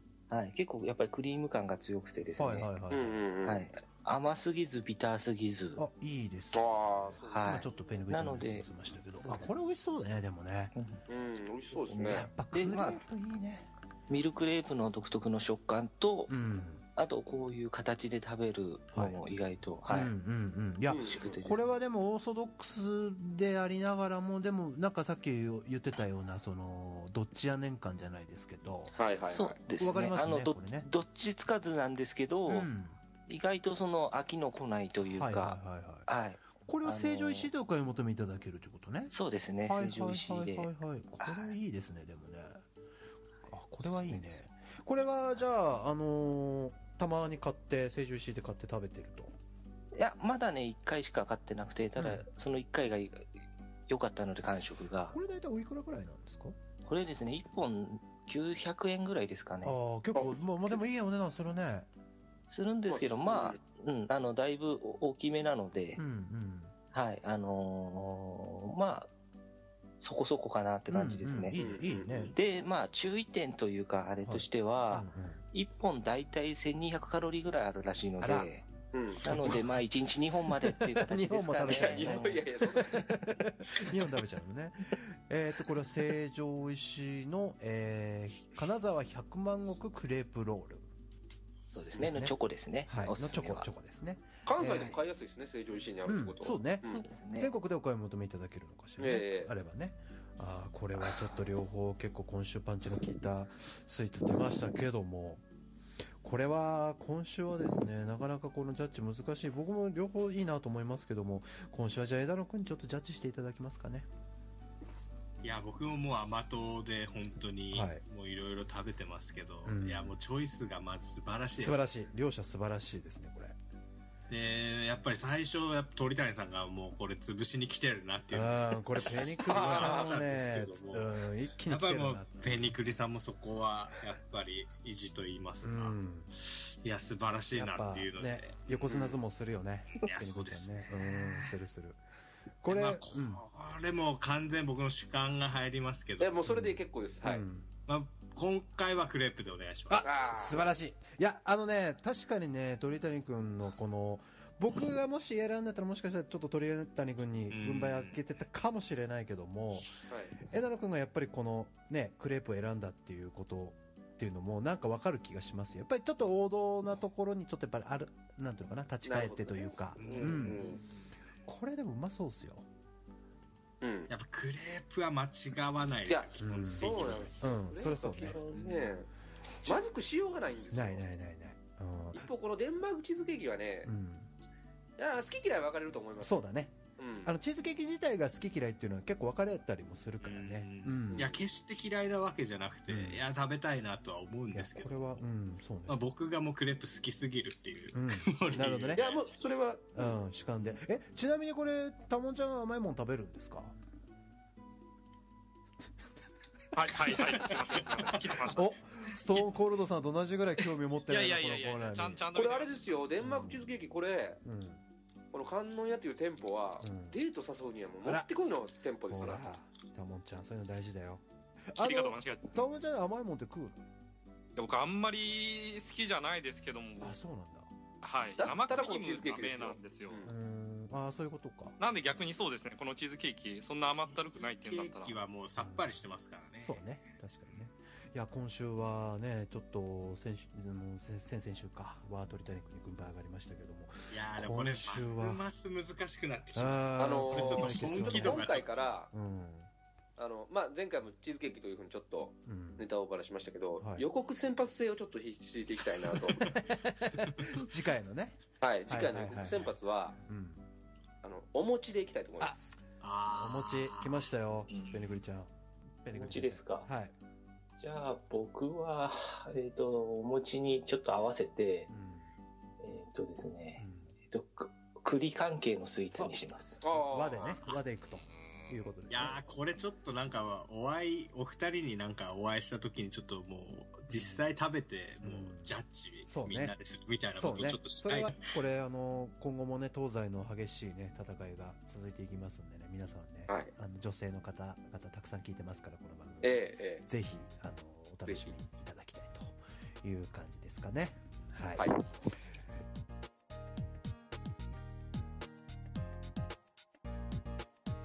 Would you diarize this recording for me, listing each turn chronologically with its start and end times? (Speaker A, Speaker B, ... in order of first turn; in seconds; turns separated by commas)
Speaker A: 0.3-2.7, Speaker B: 2.4-3.2, Speaker C: 2.9-3.7, Speaker A: 3.4-5.8, Speaker B: 5.8-10.7, Speaker C: 6.5-7.7, Speaker A: 7.3-8.7, Speaker A: 9.2-9.5, Speaker A: 10.7-11.0, Speaker C: 11.1-12.3, Speaker A: 11.8-13.0, Speaker B: 12.0-13.7, Speaker A: 14.1-16.4, Speaker B: 16.3-16.8, Speaker A: 16.9-20.1, Speaker B: 18.9-19.3, Speaker B: 19.9-29.0, Speaker C: 20.9-21.4, Speaker A: 20.9-21.6, Speaker C: 28.9-29.6, Speaker A: 29.3-32.7, Speaker B: 29.7-30.9, Speaker B: 32.5-33.0, Speaker A: 33.2-37.5, Speaker B: 35.0-36.1, Speaker B: 36.6-39.1, Speaker A: 39.1-40.7, Speaker B: 39.7-42.6, Speaker A: 41.2-41.5, Speaker B: 43.5-49.3, Speaker A: 43.8-44.4, Speaker A: 49.9-53.3, Speaker B: 52.0-52.2, Speaker A: 53.9-55.1, Speaker B: 55.1-56.5, Speaker A: 56.8-59.8, Speaker B: 59.6-61.9, Speaker C: 60.1-60.8, Speaker A: 62.5-66.0, Speaker C: 62.9-63.6, Speaker B: 66.0-66.7, Speaker A: 66.9-69.1, Speaker A: 70.0-71.6, Speaker B: 70.9-72.4, Speaker C: 71.5-72.3, Speaker A: 72.2-78.7, Speaker B: 74.2-75.4, Speaker B: 78.2-78.5, Speaker C: 78.9-79.6, Speaker B: 79.2-79.8, Speaker A: 79.2-82.4, Speaker B: 80.4-90.8, Speaker C: 81.7-83.2, Speaker A: 91.7-93.7, Speaker B: 92.0-92.3, Speaker B: 92.9-94.9, Speaker C: 94.5-97.0, Speaker A: 94.7-95.0, Speaker B: 96.0-105.4, Speaker A: 96.8-97.5, Speaker C: 99.0-99.5, Speaker B: 106.2-114.1, Speaker D: 115.4-121.9, Speaker B: 117.7-118.0, Speaker B: 119.6-120.2, Speaker B: 121.5-123.5, Speaker D: 124.3-138.9, Speaker B: 128.3-132.8, Speaker C: 129.5-130.1, Speaker B: 135.6-136.3, Speaker B: 137.5-142.0, Speaker C: 138.8-139.2, Speaker D: 140.0-141.6, Speaker B: 142.6-143.4, Speaker D: 142.7-146.4, Speaker C: 146.2-147.4, Speaker B: 146.4-147.7, Speaker D: 147.9-150.6, Speaker B: 149.9-170.7, Speaker C: 150.0-150.7, Speaker D: 157.5-158.2, Speaker C: 160.1-160.4, Speaker C: 169.0-170.8, Speaker D: 170.0-170.7, Speaker B: 171.4-172.7, Speaker C: 173.8-174.1, Speaker D: 174.1-177.4, Speaker C: 176.1-179.1, Speaker B: 176.4-178.4, Speaker D: 178.5-179.0, Speaker C: 179.6-181.1, Speaker B: 180.7-182.3, Speaker C: 182.1-183.9, Speaker B: 183.8-184.3, Speaker C: 185.0-186.4, Speaker B: 186.2-191.3, Speaker C: 187.0-187.3, Speaker D: 190.2-195.2, Speaker C: 191.1-191.4, Speaker B: 192.9-193.2, Speaker B: 194.5-196.0, Speaker D: 195.9-199.2, Speaker B: 197.9-199.1, Speaker C: 198.9-200.2, Speaker B: 199.9-203.7, Speaker E: 206.7-208.7, Speaker D: 207.2-208.2, Speaker B: 208.5-212.3, Speaker E: 211.1-212.8, Speaker C: 212.3-214.4, Speaker B: 213.2-213.7, Speaker B: 214.4-214.8, Speaker C: 215.3-219.5, Speaker B: 216.8-217.2, Speaker B: 219.1-221.2, Speaker B: 221.7-223.8, Speaker E: 221.8-222.5, Speaker E: 224.6-227.2, Speaker B: 227.0-227.7, Speaker E: 228.0-230.2, Speaker C: 228.4-230.3, Speaker B: 230.2-231.8, Speaker E: 231.8-235.2, Speaker D: 233.8-236.8, Speaker B: 235.6-235.9, Speaker B: 236.6-245.4, Speaker D: 244.1-248.9, Speaker B: 246.5-248.4, Speaker C: 246.9-249.1, Speaker B: 249.1-249.7, Speaker C: 250.2-256.5, Speaker B: 252.4-252.8, Speaker B: 253.8-254.1, Speaker B: 256.1-259.7, Speaker C: 258.6-260.2, Speaker B: 260.2-260.6, Speaker C: 261.2-262.7, Speaker D: 263.0-264.7, Speaker B: 263.3-265.5, Speaker B: 266.0-267.1, Speaker A: 266.1-266.9, Speaker A: 267.8-271.9, Speaker B: 271.9-272.3, Speaker A: 272.8-276.8, Speaker B: 273.8-274.1, Speaker C: 276.8-277.6, Speaker B: 276.9-279.5, Speaker D: 279.1-288.6, Speaker B: 284.1-284.4, Speaker B: 285.2-286.7, Speaker B: 287.3-301.9, Speaker C: 296.4-297.1, Speaker C: 301.8-302.0